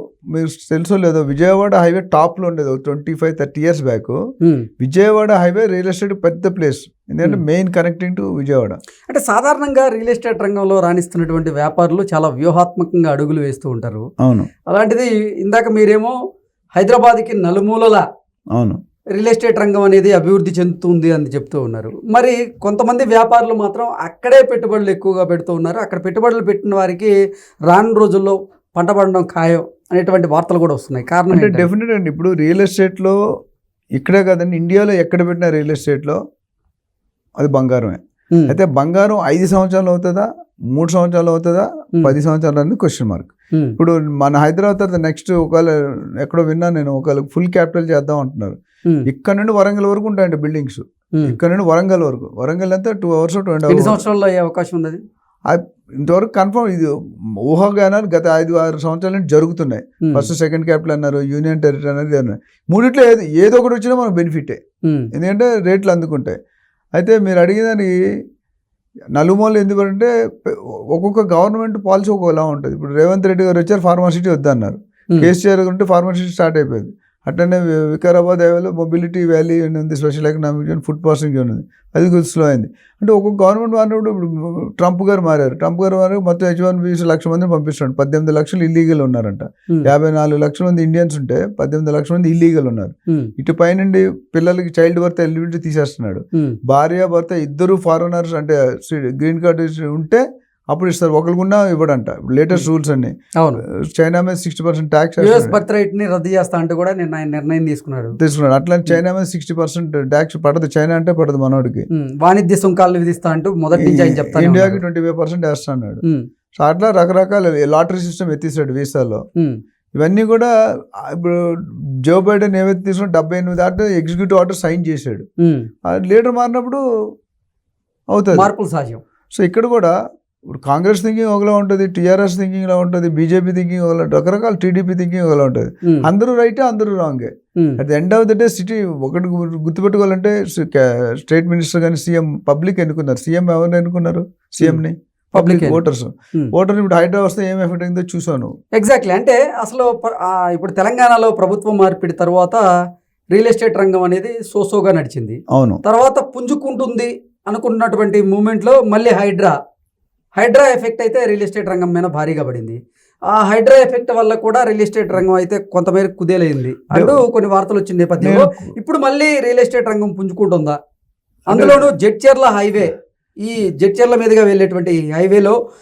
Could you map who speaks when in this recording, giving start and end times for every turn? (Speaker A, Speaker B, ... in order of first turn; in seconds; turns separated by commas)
Speaker A: 0.3-4.2, Speaker B: 4.4-4.7, Speaker A: 4.8-8.8, Speaker B: 9.1-14.1, Speaker A: 14.2-14.5, Speaker B: 14.7-16.1, Speaker B: 16.8-18.0, Speaker A: 18.5-18.8, Speaker B: 19.1-27.1, Speaker B: 27.7-31.7, Speaker A: 31.3-33.2, Speaker A: 34.0-36.2, Speaker A: 37.4-54.0, Speaker B: 53.7-55.0, Speaker A: 55.5-56.9, Speaker A: 57.5-64.6, Speaker B: 60.0-60.3, Speaker B: 64.8-65.1, Speaker A: 65.1-66.3, Speaker A: 67.0-67.9, Speaker A: 69.1-103.1, Speaker A: 103.7-105.6, Speaker B: 105.2-108.2, Speaker A: 108.2-111.9, Speaker B: 111.9-114.8, Speaker A: 113.8-116.0, Speaker A: 116.6-119.2, Speaker A: 120.0-125.2, Speaker B: 125.4-125.7, Speaker A: 125.8-126.8, Speaker A: 128.1-128.5, Speaker B: 128.3-129.0, Speaker A: 129.3-129.9, Speaker A: 130.5-148.5, Speaker B: 145.3-145.8, Speaker B: 148.8-152.6, Speaker B: 153.3-159.5, Speaker A: 155.5-155.8, Speaker B: 160.4-162.8, Speaker B: 163.3-170.8, Speaker A: 166.9-167.2, Speaker A: 168.2-168.7, Speaker B: 171.5-175.5, Speaker A: 171.5-171.9